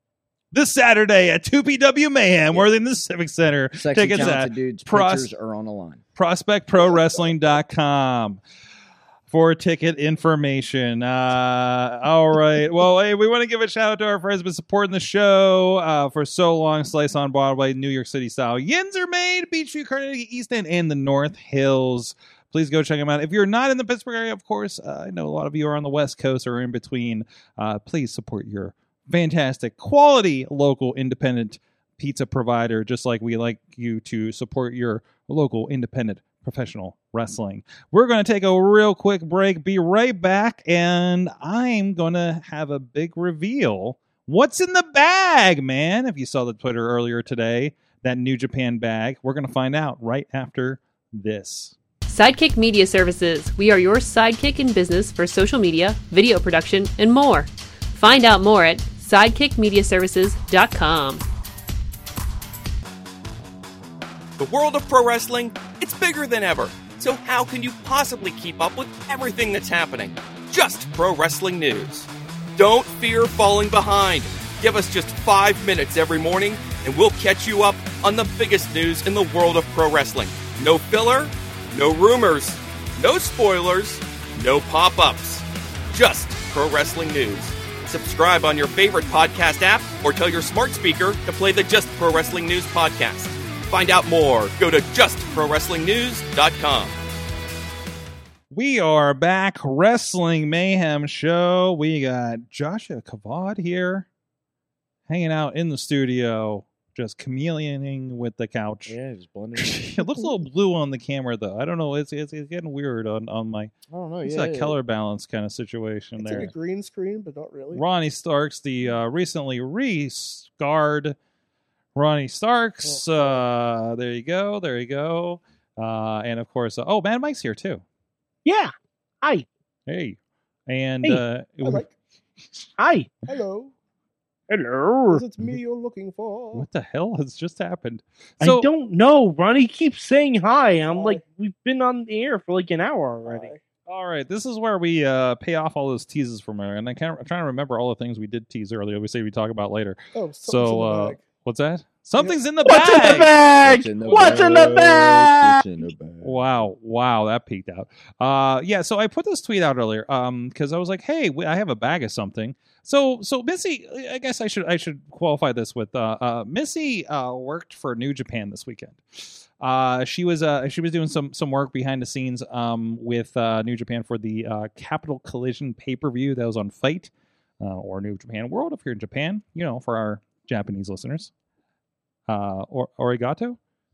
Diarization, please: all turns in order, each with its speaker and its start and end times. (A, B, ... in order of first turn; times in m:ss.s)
0:00.5-0:05.3 A
0:03.8-0:06.0 B
0:06.2-0:08.4 A
0:09.3-0:51.8 A
0:52.1-1:01.2 C
1:04.4-1:37.0 D
1:38.5-1:44.1 A
1:45.1-1:49.0 A
1:48.9-1:49.9 B
1:49.6-1:53.7 A
1:53.9-1:54.8 B
1:54.2-1:56.5 A
1:56.2-1:57.8 E
1:57.7-2:01.2 A
2:02.0-2:07.8 A
2:02.8-2:03.4 E
2:08.4-2:09.5 F
2:09.9-2:11.9 A
2:11.6-2:11.9 E
2:12.8-2:13.1 F
2:13.3-2:13.7 E
2:14.5-2:15.2 F
2:15.1-2:16.7 E
2:16.5-2:18.7 A
2:18.4-2:23.5 F
2:20.9-2:21.2 E
2:23.2-2:23.6 E
2:23.9-2:33.3 A
2:30.1-2:31.2 E
2:32.6-2:35.6 F
2:33.5-2:36.7 B
2:34.0-2:34.7 A
2:36.2-3:01.3 A
3:02.3-3:03.6 A